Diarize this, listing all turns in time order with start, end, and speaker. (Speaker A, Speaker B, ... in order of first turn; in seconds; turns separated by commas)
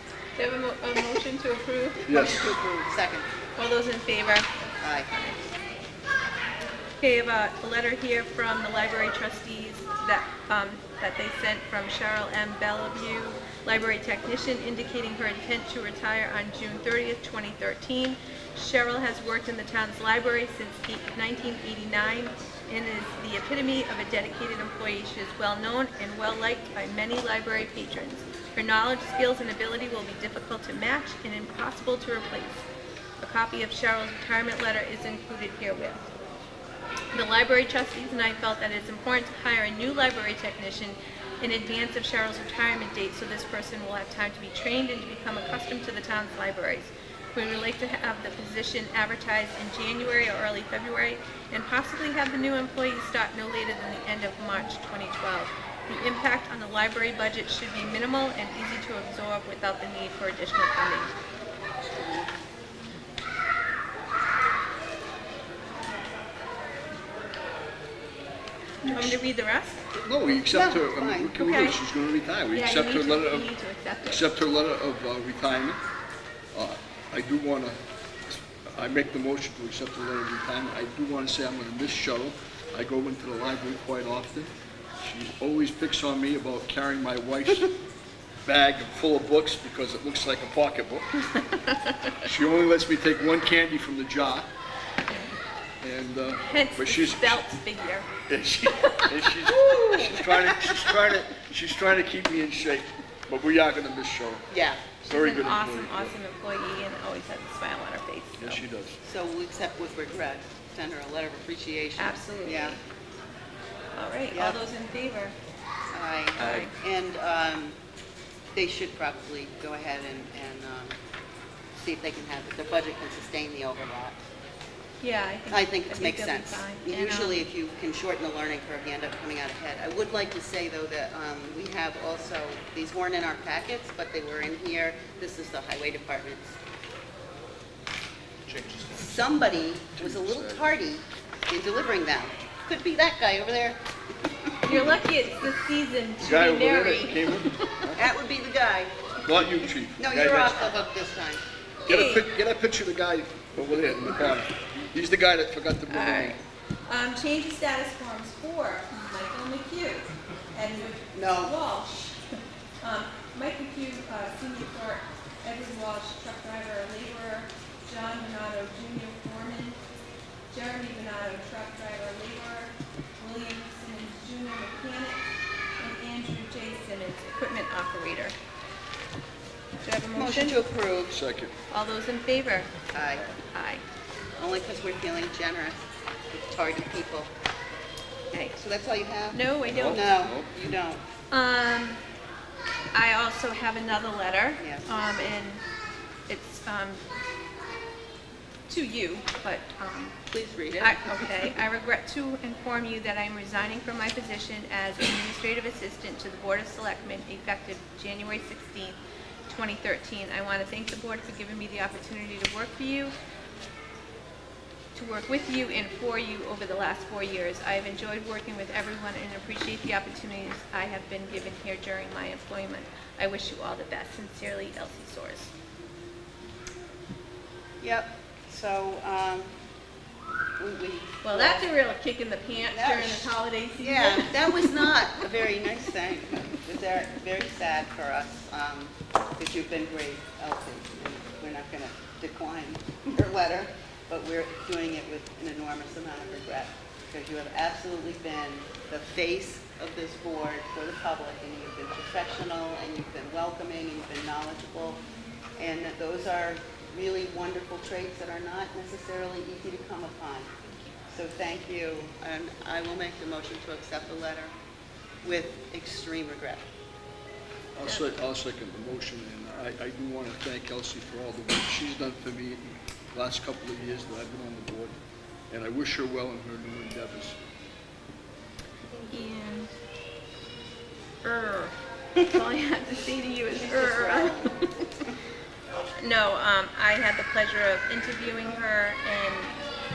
Speaker A: 0.4-2.0, Speaker B: 2.0-3.3, Speaker C: 2.1-2.5, Speaker A: 3.5-4.5, Speaker B: 4.8-5.1, Speaker A: 5.1-5.4, Speaker A: 7.0-32.6, Speaker A: 33.2-36.1, Speaker A: 37.1-61.1, Speaker C: 68.8-69.2, Speaker A: 68.8-69.8, Speaker C: 69.9-73.5, Speaker B: 70.5-71.4, Speaker A: 71.3-71.8, Speaker A: 72.5-74.3, Speaker C: 74.0-75.8, Speaker C: 76.5-87.7, Speaker C: 88.4-91.1, Speaker A: 91.3-92.3, Speaker C: 92.2-94.5, Speaker C: 95.8-97.4, Speaker A: 96.3-98.1, Speaker C: 98.3-104.5, Speaker A: 98.8-101.1, Speaker B: 99.7-100.1, Speaker B: 104.5-104.9, Speaker A: 105.0-108.6, Speaker C: 105.0-106.1, Speaker C: 108.4-109.0, Speaker B: 109.0-112.8, Speaker A: 112.0-112.8, Speaker A: 113.9-115.3, Speaker B: 114.3-114.6, Speaker B: 115.9-117.7, Speaker A: 116.4-116.7, Speaker B: 118.5-120.9, Speaker B: 121.7-124.2, Speaker A: 125.0-127.4, Speaker B: 125.5-136.6, Speaker C: 138.4-140.7, Speaker B: 138.9-143.8, Speaker B: 144.5-144.9, Speaker A: 144.6-147.6, Speaker C: 146.2-148.0, Speaker B: 147.9-148.9, Speaker C: 149.2-150.8, Speaker B: 150.0-151.4, Speaker A: 151.8-152.3, Speaker C: 151.9-156.4, Speaker A: 155.9-162.2, Speaker B: 161.1-161.6, Speaker A: 162.8-169.8, Speaker A: 170.5-175.2, Speaker A: 175.8-178.3, Speaker A: 179.8-180.6, Speaker B: 180.1-181.2, Speaker C: 181.1-181.5, Speaker A: 181.7-182.7, Speaker B: 182.9-183.3, Speaker A: 183.5-183.8, Speaker B: 184.4-187.3, Speaker A: 188.3-188.6, Speaker B: 188.6-191.0, Speaker A: 189.3-190.1, Speaker C: 189.6-190.5, Speaker A: 191.3-192.0, Speaker A: 192.9-195.6, Speaker B: 194.6-194.9, Speaker A: 196.3-197.0, Speaker A: 198.7-200.1, Speaker B: 200.3-201.6, Speaker A: 200.7-213.1, Speaker A: 214.9-225.5, Speaker B: 227.8-229.5, Speaker B: 230.6-231.7, Speaker A: 231.2-235.2, Speaker B: 232.7-255.0, Speaker B: 255.6-260.5, Speaker A: 260.6-260.9, Speaker B: 261.1-264.5, Speaker B: 265.2-266.6, Speaker C: 267.8-274.9, Speaker C: 275.5-277.4, Speaker A: 278.9-279.7, Speaker A: 281.2-284.7, Speaker B: 283.5-284.6, Speaker A: 286.0-289.6